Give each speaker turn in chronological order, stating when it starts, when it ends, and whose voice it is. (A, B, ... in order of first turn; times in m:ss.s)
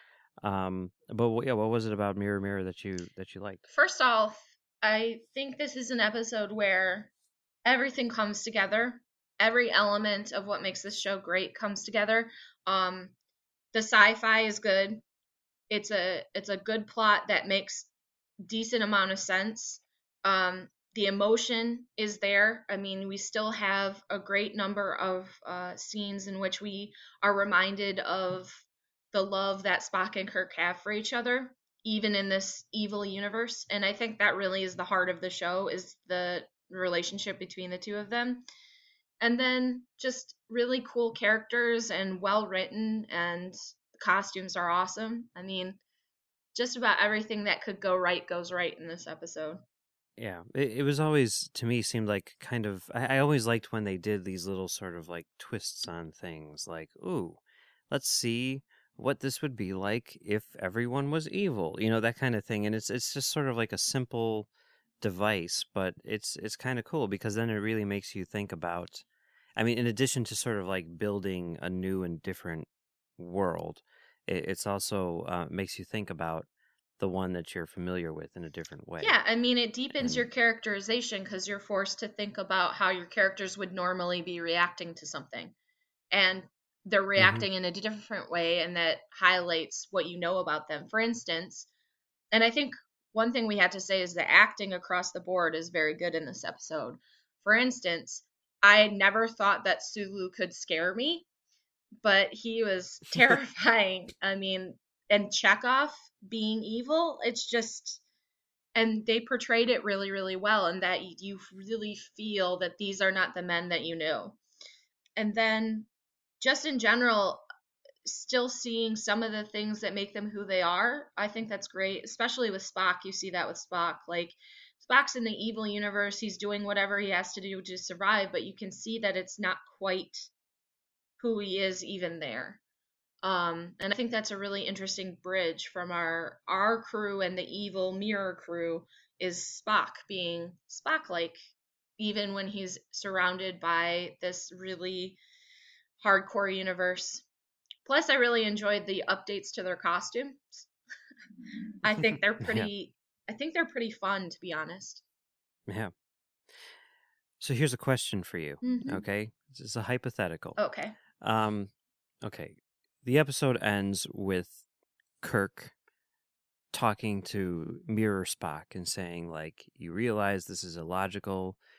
0:00.4-0:03.6 A
0:03.7-0:07.1 B
0:07.6-0:13.1 B
0:13.7-0:15.0 B
0:15.7-0:17.9 B
0:18.4-0:38.4 B
0:39.2-0:45.8 B
0:46.6-0:49.6 B
0:50.2-1:04.5 A
1:05.0-1:09.0 A
1:09.6-1:16.5 A
1:17.0-1:19.2 A
1:19.0-1:25.5 B
1:20.0-1:20.3 A
1:26.1-1:31.7 B
1:27.2-1:27.5 A
1:32.3-1:41.3 B
1:42.0-1:48.0 B
1:48.8-1:54.4 B
1:55.2-1:55.9 B
1:56.4-1:57.4 B
1:58.0-2:10.3 B
2:11.2-2:12.6 B
2:13.2-2:21.4 B
2:22.0-2:25.2 B
2:26.0-2:27.2 B
2:27.9-2:30.7 B
2:31.8-2:35.0 B
2:32.4-2:32.7 A
2:35.7-2:35.9 A
2:37.4-2:40.6 A
2:38.6-2:39.0 B
2:40.6-2:41.0 B
2:41.2-2:44.6 A
2:45.2-2:45.7 A
2:46.7-2:51.6 A